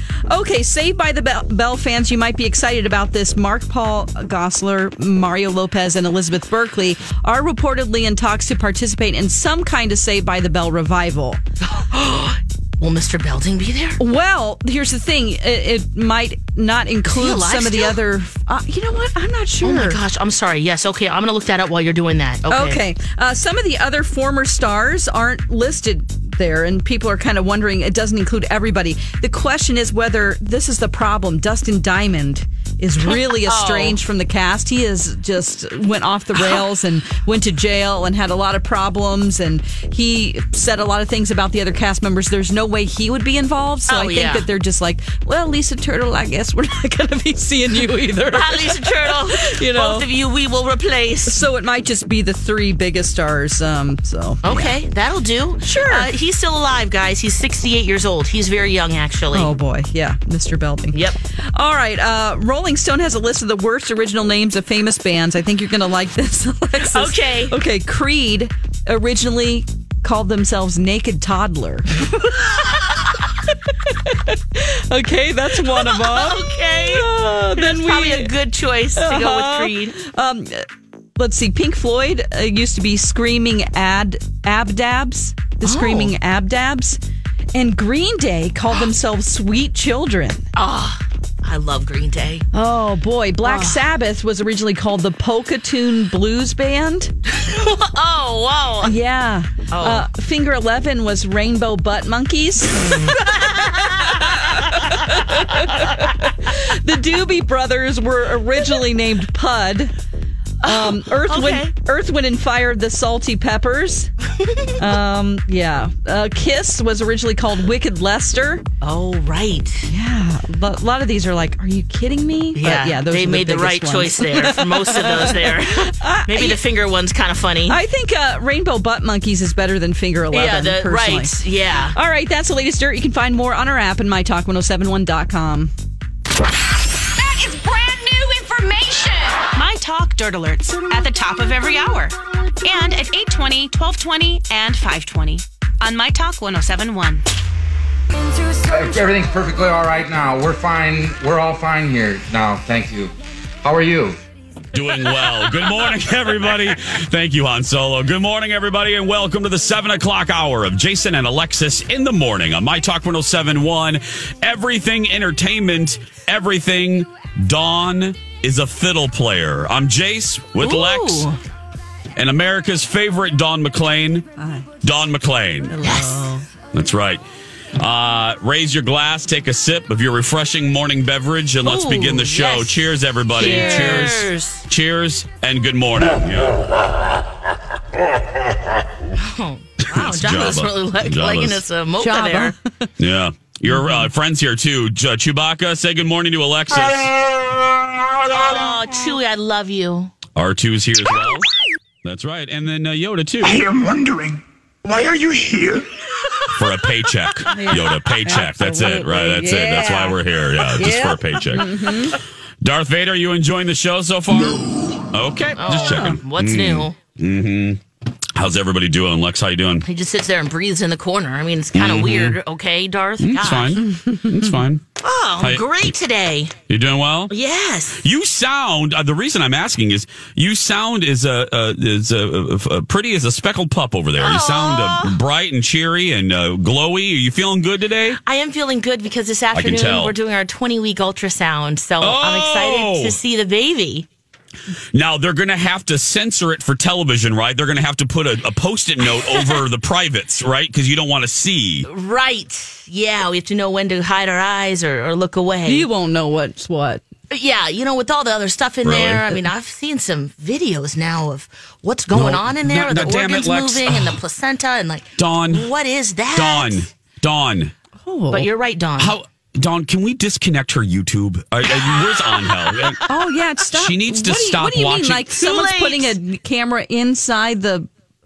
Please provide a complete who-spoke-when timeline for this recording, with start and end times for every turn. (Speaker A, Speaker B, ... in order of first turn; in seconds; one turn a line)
Speaker A: 0.3-11.4
Speaker B: 11.6-14.0
Speaker A: 14.0-20.0
Speaker B: 17.1-18.0
Speaker B: 19.6-22.8
Speaker A: 22.5-50.1
Speaker B: 33.0-34.0
Speaker B: 36.4-36.6
Speaker B: 43.9-44.5
Speaker B: 48.3-51.5
Speaker A: 51.2-54.8
Speaker B: 54.4-59.5
Speaker A: 55.6-56.1
Speaker A: 59.3-72.1
Speaker B: 66.8-67.6
Speaker B: 72.2-73.1
Speaker A: 72.7-73.0
Speaker A: 73.9-78.3
Speaker B: 75.6-80.0
Speaker A: 79.0-80.7
Speaker A: 81.2-87.0
Speaker B: 85.6-86.2
Speaker A: 87.5-90.5
Speaker B: 90.5-92.5
Speaker A: 92.5-97.1
Speaker B: 93.4-93.8
Speaker B: 97.3-99.0
Speaker A: 98.8-109.9
Speaker B: 99.7-100.1
Speaker B: 103.0-104.3
Speaker B: 110.6-111.7
Speaker A: 110.7-114.1
Speaker B: 114.4-114.7
Speaker A: 114.8-118.7
Speaker B: 118.8-119.9
Speaker A: 119.9-126.6
Speaker B: 122.5-127.8
Speaker A: 127.7-131.4
Speaker B: 130.3-132.0
Speaker A: 131.9-135.7
Speaker C: 137.2-139.5
Speaker D: 139.5-142.1
Speaker D: 142.7-147.2
Speaker E: 148.7-153.1
Speaker F: 150.3-153.0
Speaker E: 153.6-154.2
Speaker G: 154.7-171.3
Speaker B: 170.6-171.4
Speaker G: 172.2-174.3
Speaker A: 174.4-174.7
Speaker G: 174.8-175.8
Speaker A: 175.7-176.4
Speaker B: 175.8-176.4
Speaker G: 176.7-177.2
Speaker G: 177.8-186.6
Speaker B: 181.6-184.7
Speaker A: 183.4-184.1
Speaker B: 189.1-192.6
Speaker G: 189.8-191.6
Speaker A: 192.0-192.9
Speaker G: 193.0-197.1
Speaker A: 193.7-194.1
Speaker B: 198.3-200.1
Speaker G: 200.3-201.5
Speaker G: 202.0-203.7
Speaker F: 203.4-205.8
Speaker G: 206.6-217.8
Speaker A: 207.5-210.2
Speaker A: 210.8-212.2
Speaker B: 215.6-217.0
Speaker A: 215.9-216.1
Speaker G: 218.4-219.8
Speaker B: 219.8-223.8
Speaker G: 221.7-222.4
Speaker G: 223.2-224.8
Speaker A: 223.8-224.6
Speaker B: 225.0-226.6
Speaker G: 225.4-225.9
Speaker G: 226.7-227.3
Speaker B: 227.3-228.0
Speaker G: 228.0-238.2
Speaker B: 234.2-235.2
Speaker B: 238.2-244.1
Speaker G: 239.5-240.1
Speaker G: 242.0-243.2
Speaker G: 244.9-251.9
Speaker B: 249.2-249.6
Speaker B: 251.8-255.9
Speaker A: 255.7-257.0
Speaker B: 257.3-266.9
Speaker G: 258.8-259.3
Speaker G: 262.1-264.2
Speaker G: 265.2-265.7
Speaker G: 266.3-267.7
Speaker A: 268.0-268.5
Speaker B: 268.3-269.1
Speaker G: 269.0-273.0
Speaker B: 271.6-273.0
Speaker A: 273.1-277.9
Speaker G: 273.7-275.3
Speaker B: 275.3-276.2